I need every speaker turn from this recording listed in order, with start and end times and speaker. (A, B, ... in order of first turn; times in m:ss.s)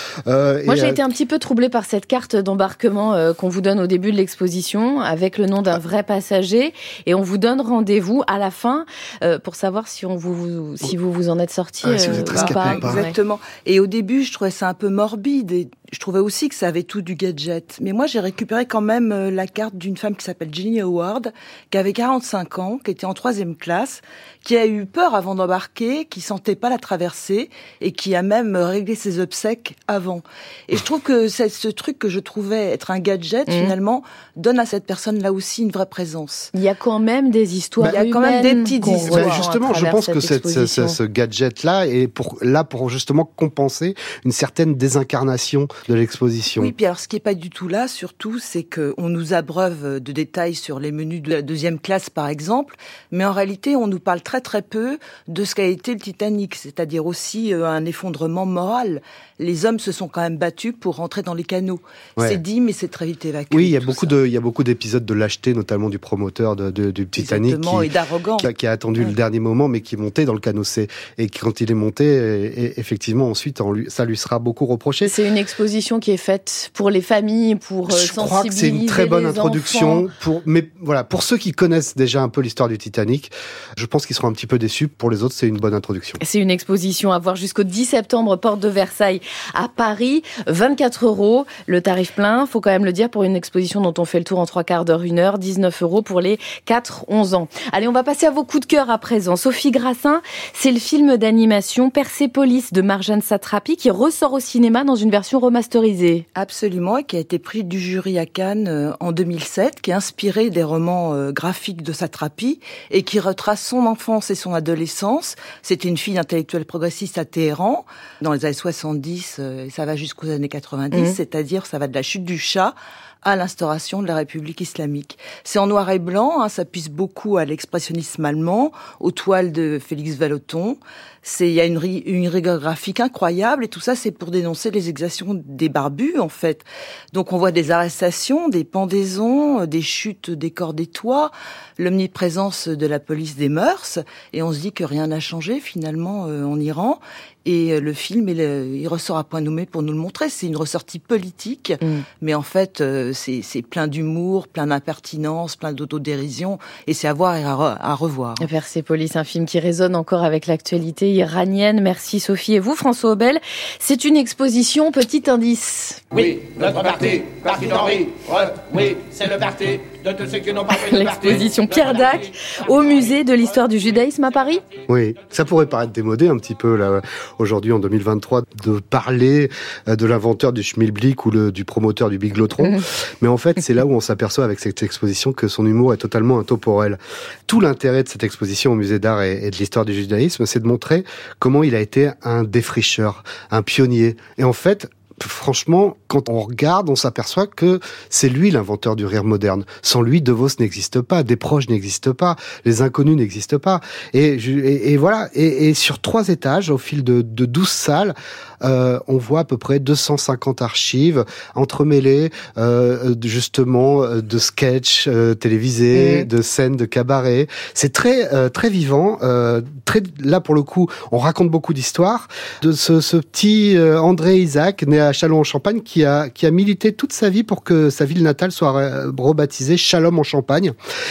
0:00.3-0:01.0 A
0:00.6-0:13.1 B
0:11.8-0:13.0 A
0:12.2-0:36.5 C
0:33.5-0:33.7 B
0:36.5-0:41.0 B
0:37.9-0:39.5 C
0:39.0-0:46.7 A
0:46.6-1:04.1 C
1:03.5-1:15.2 A
1:07.2-1:09.1 C
1:15.0-1:20.1 B
1:17.9-1:26.2 A
1:26.2-1:46.2 B
1:46.4-2:38.5 C
2:38.4-2:46.2 B
2:46.1-2:50.7 D
2:50.5-2:54.6 B
2:54.9-3:50.7 A
3:35.9-3:36.3 B